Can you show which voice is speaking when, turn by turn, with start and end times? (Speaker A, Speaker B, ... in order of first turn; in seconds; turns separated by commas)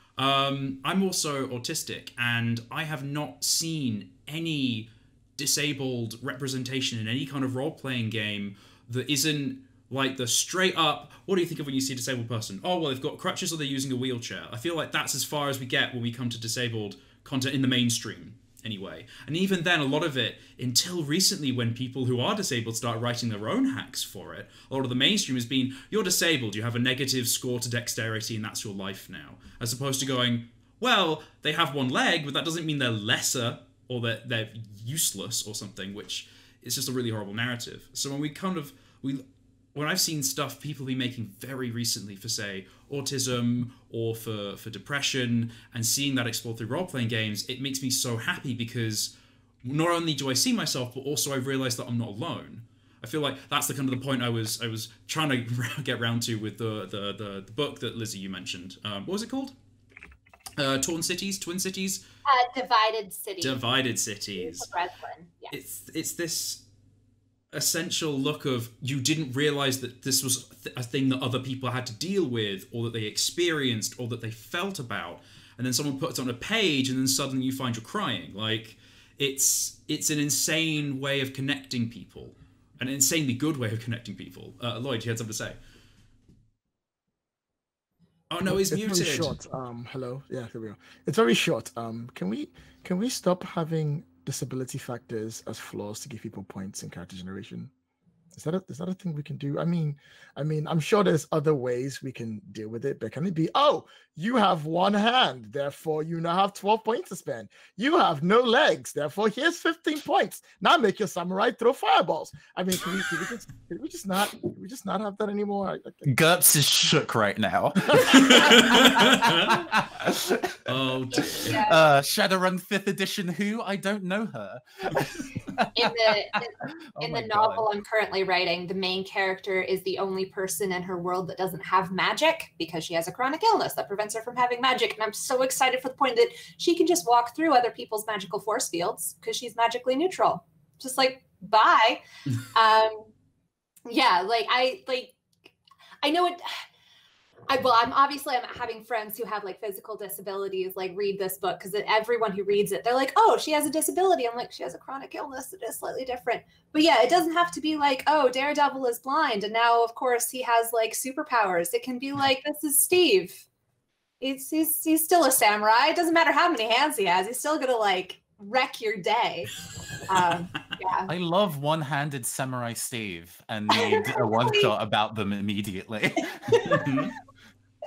Speaker A: 0.2-59.5, Speaker A: 60.6-62.0, Speaker B: 62.2-63.6, Speaker A: 63.4-64.7, Speaker B: 64.4-65.5, Speaker A: 65.5-66.6, Speaker A: 67.5-85.6, Speaker A: 88.3-89.3, Speaker C: 88.5-97.7, Speaker C: 98.3-116.1, Speaker D: 116.0-120.6, Speaker A: 118.1-119.5, Speaker A: 120.7-121.5, Speaker B: 121.1-121.8, Speaker D: 121.5-126.1, Speaker B: 125.7-143.1, Speaker D: 127.0-127.6, Speaker B: 143.9-145.2, Speaker B: 146.0-146.6, Speaker B: 147.5-163.4, Speaker B: 164.2-171.1, Speaker D: 171.1-176.8, Speaker B: 173.7-174.7, Speaker A: 176.6-177.1